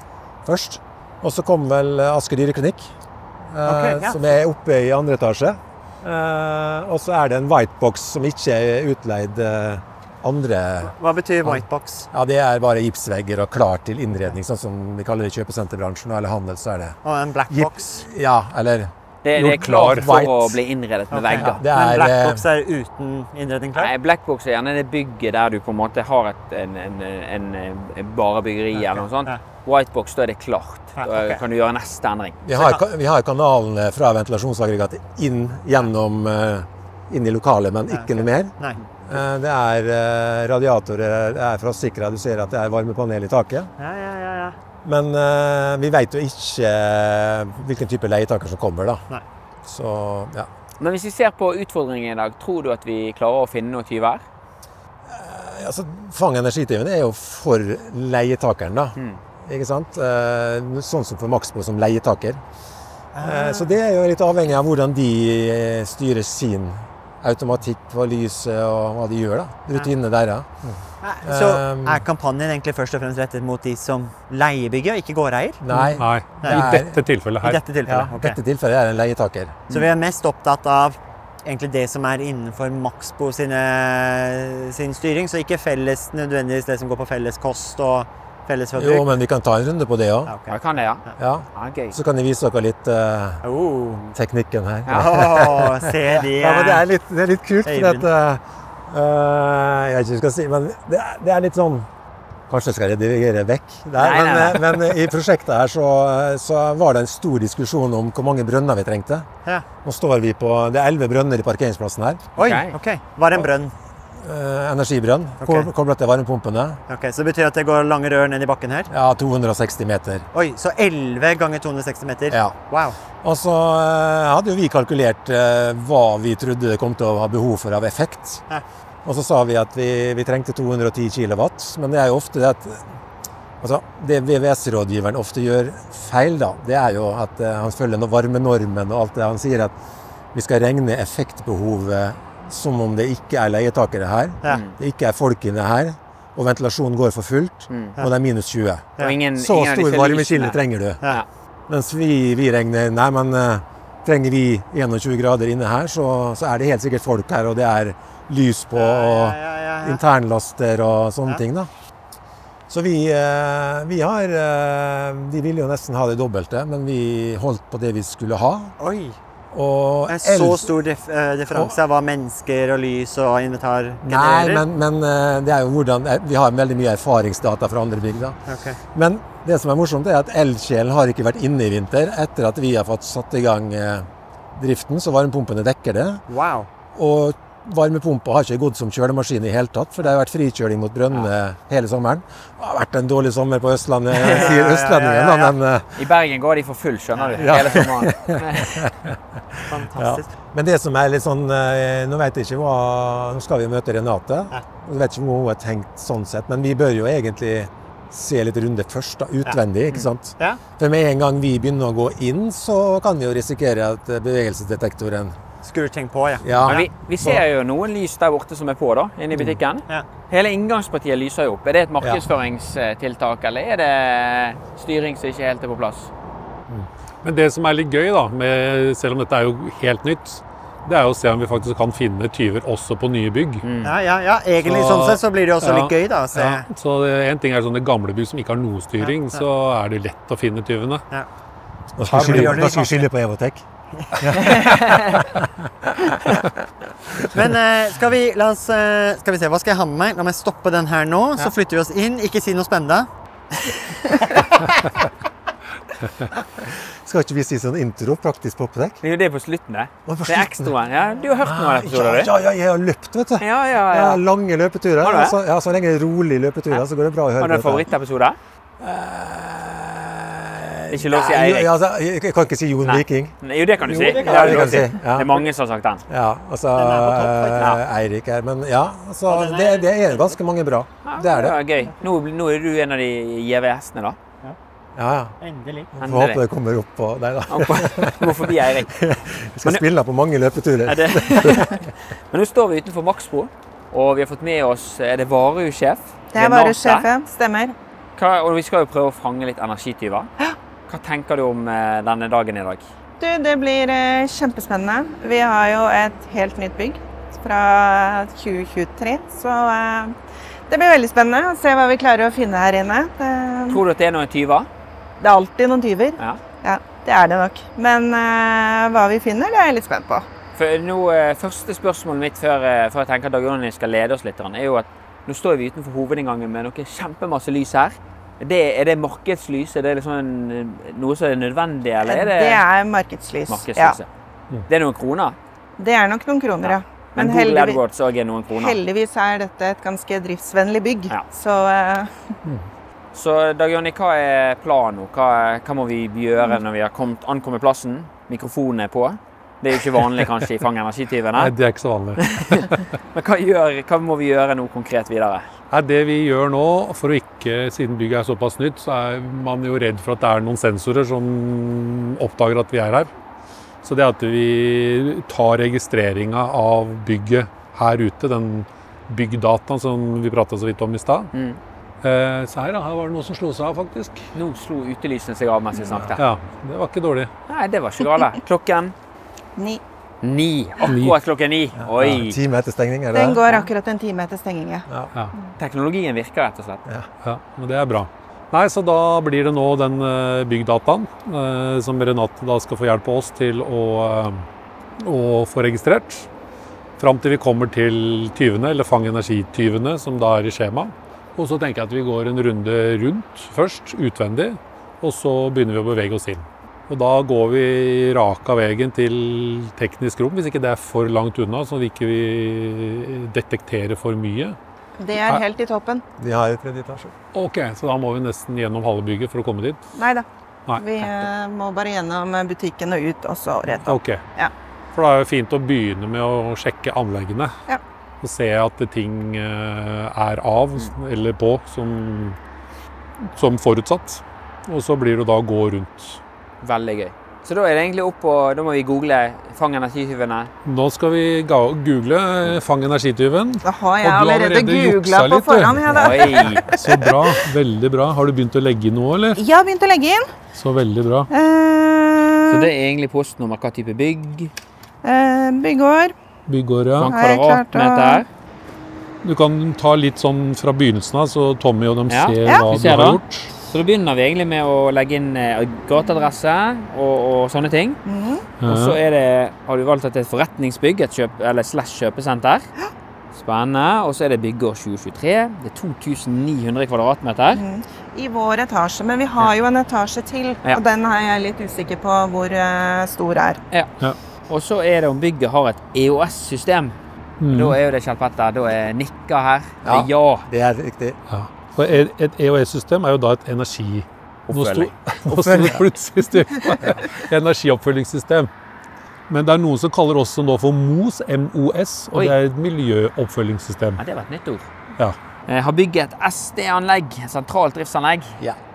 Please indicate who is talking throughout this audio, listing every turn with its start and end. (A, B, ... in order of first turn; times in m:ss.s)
0:00.4-0:02.9 A
0:03.5-0:17.0 A
0:03.7-0:04.2 B
0:10.9-0:12.1 B
0:17.0-0:18.0 B
0:17.5-0:18.9 A
0:19.2-0:21.6 C
0:19.4-0:20.1 D
0:19.4-0:20.6 A
0:21.1-0:23.9 B
0:21.4-0:22.4 A
0:23.8-0:32.4 C
0:28.8-0:29.4 B
0:31.0-0:31.4 B
0:32.4-0:43.7 A
0:32.6-0:32.8 B
0:37.9-0:38.8 B
0:43.8-0:44.6 B
0:44.8-0:49.0 A
0:49.6-0:50.5 A
0:50.8-0:54.2 C
0:55.1-1:02.4 A
1:03.1-1:03.7 B
1:03.2-1:10.7 A
1:11.0-1:15.6 B
1:11.2-1:12.0 A
1:15.6-1:17.0 A
1:16.0-1:17.6 D
1:16.4-1:16.8 B
1:17.4-1:18.4 B
1:17.8-1:19.6 A
1:19.7-1:29.1 B
1:28.8-1:30.3 A
1:30.3-1:31.2 B
1:30.5-1:32.0 C
1:31.2-1:33.4 A
1:33.4-1:34.2 B
1:34.1-1:41.9 A
1:34.9-1:35.3 C
1:34.9-1:36.8 B
1:37.7-1:38.0 B
1:42.5-1:49.3 A
1:44.0-1:45.0 C
1:49.8-1:52.3 A
1:52.4-1:53.7 B
1:52.4-1:52.8 C
1:54.2-1:56.8 A
1:55.4-1:55.7 B
1:56.9-1:58.9 B
1:58.9-2:00.3 A
2:00.3-2:03.0 B
2:02.3-2:02.6 A
2:03.2-2:08.4 A
2:09.0-2:12.8 A
2:13.6-2:19.8 A
2:20.3-2:31.0 A
2:24.5-2:24.7 C
2:27.7-2:28.0 C
2:29.0-2:31.3 C
2:31.7-2:41.7 A
2:38.8-2:40.0 B
2:42.7-2:48.7 A
2:48.8-2:49.2 B
2:49.5-2:50.7 A
2:50.1-2:54.6 B
2:54.0-2:58.4 A
2:58.5-2:58.8 B
2:58.9-3:06.2 A
3:06.3-3:06.7 B
3:07.0-3:16.0 A
3:14.1-3:15.6 B
3:16.0-3:18.9 C
3:17.1-3:17.8 B
3:17.4-3:35.4 A
3:19.7-3:20.3 B
3:35.6-3:36.8 B
3:36.4-3:37.4 A
3:36.6-3:46.1 C
3:47.2-3:53.7 D
3:53.6-3:53.9 C
3:53.8-3:56.7 B
3:54.6-4:01.1 D
3:59.0-3:59.4 B
4:02.0-4:03.6 A
4:02.1-4:02.8 D
4:02.1-4:03.0 B
4:04.2-4:06.5 A
4:04.5-4:05.0 C
4:07.3-4:13.1 B
4:14.1-4:14.4 B
4:16.6-4:19.0 A
4:19.0-4:22.3 C
4:20.1-4:20.7 A
4:21.4-4:27.9 A
4:23.4-4:24.2 C
4:25.0-4:25.4 C
4:27.4-4:28.4 C
4:28.8-4:33.4 A
4:30.9-4:31.7 C
4:32.8-4:36.0 C
4:33.8-4:34.9 B
4:33.9-4:35.4 A
4:36.1-4:41.6 A
4:36.8-4:37.8 B
4:39.3-4:40.4 B
4:41.1-4:44.2 C
4:45.0-4:45.4 A
4:45.4-4:45.9 B
4:46.0-4:51.9 A
4:46.0-4:46.4 C
4:47.5-4:48.9 C
4:50.9-4:57.1 C
4:56.3-4:57.8 E
4:58.2-5:00.3 C
5:00.9-5:02.9 C
5:03.2-5:10.2 E
5:10.7-5:13.8 E
5:13.7-5:14.7 C
5:15.2-5:20.3 E
5:20.6-5:32.6 C
5:32.1-5:34.0 E
5:33.5-5:34.1 C
5:34.7-5:35.4 C
5:35.8-5:37.8 E
5:36.6-5:38.8 C
5:38.5-5:42.3 E
5:43.1-5:51.5 C
5:51.4-5:52.8 D
5:52.2-5:55.5 C
5:55.7-6:03.1 D
6:03.8-6:11.3 D
6:11.3-6:11.6 C
6:12.0-6:14.3 D
6:14.4-6:16.2 C
6:16.2-6:17.3 D
6:17.5-6:18.9 C
6:19.6-6:19.8 E
6:20.2-6:22.4 C
6:20.8-6:21.2 D
6:21.8-6:23.4 A
6:23.1-6:24.9 E
6:25.6-6:26.8 C
6:27.2-6:34.5 D
6:35.0-6:36.3 D
6:37.0-6:54.6 D
6:55.0-6:56.0 E
6:56.2-6:57.1 A
6:57.3-6:59.8 D
7:00.0-7:04.5 E
7:03.8-7:04.2 D
7:04.9-7:07.5 D
7:08.2-7:12.4 D
7:13.3-7:16.2 D
7:16.6-7:20.5 C
7:20.6-7:29.4 D
7:23.6-7:27.3 E
7:25.9-7:26.7 C
7:29.4-7:30.3 E
7:30.6-7:31.3 D
7:31.3-7:32.7 E
7:32.5-7:34.5 C
7:35.0-7:36.2 E
7:36.5-7:37.1 D
7:37.0-7:38.3 C
7:37.0-7:38.2 E
7:39.2-7:43.5 D
7:42.1-7:48.0 C
7:48.1-7:48.5 E
7:48.6-7:49.0 D
7:48.7-7:52.7 C
7:53.3-7:57.6 C
7:57.5-8:03.6 E
8:04.5-8:07.0 C
8:07.4-8:07.8 D
8:07.5-8:10.5 C
8:09.8-8:11.2 A
8:11.3-8:18.5 D
8:14.5-8:14.9 C
8:15.3-8:15.8 A
8:19.3-8:24.0 D
8:24.0-8:24.7 C
8:25.5-8:28.4 C